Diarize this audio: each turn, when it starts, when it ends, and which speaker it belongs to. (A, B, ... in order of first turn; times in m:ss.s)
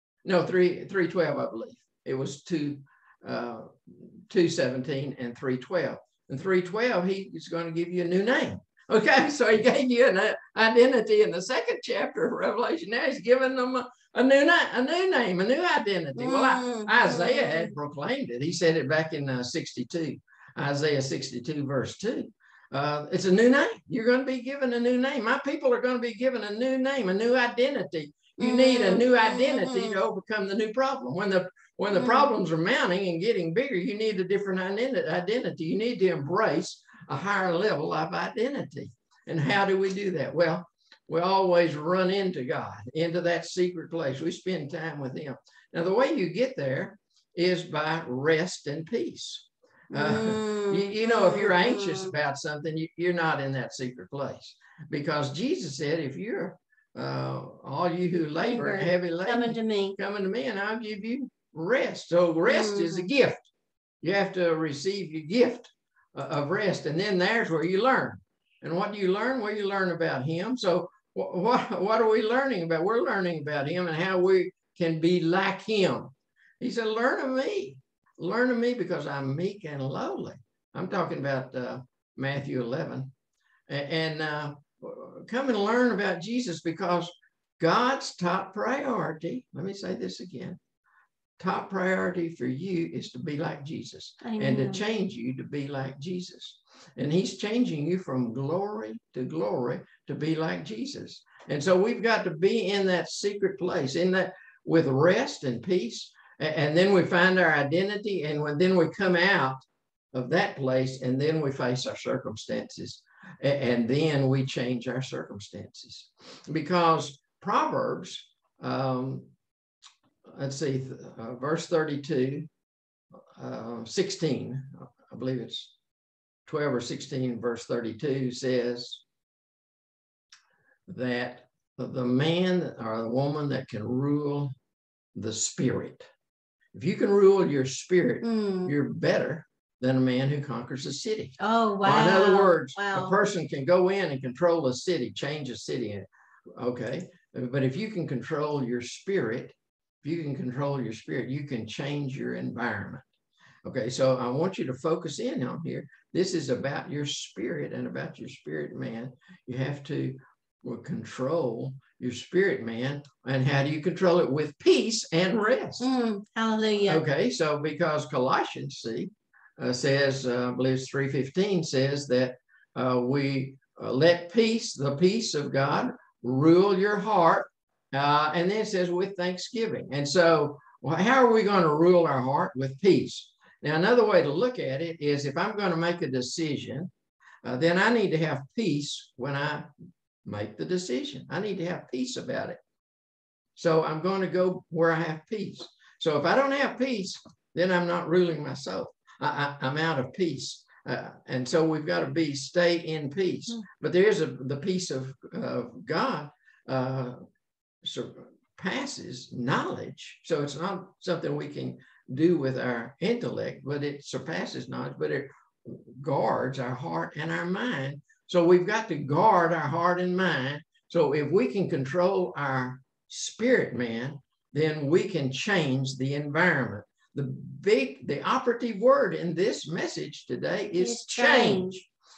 0:00.2-1:03.5 A
0:16.2-0:17.7 B
0:28.4-0:30.0 B
0:32.0-0:32.3 B
0:49.9-0:52.1 B
0:58.4-1:00.0 B
1:02.5-1:03.1 B
1:04.0-1:23.1 A
1:23.7-1:30.6 A
1:31.4-1:59.3 A
1:34.2-1:34.8 B
2:00.3-2:02.5 A
2:03.4-2:05.7 A
2:06.5-2:09.0 A
2:10.9-2:14.5 A
2:15.2-2:16.1 A
2:16.7-2:33.1 A
2:18.2-2:18.7 B
2:21.4-2:23.2 B
2:33.6-2:45.9 A
2:45.8-2:47.0 B
2:46.8-3:06.9 A
3:07.4-3:09.7 A
3:10.2-3:12.6 A
3:13.6-3:27.2 A
3:27.8-3:51.9 A
3:50.8-3:51.8 B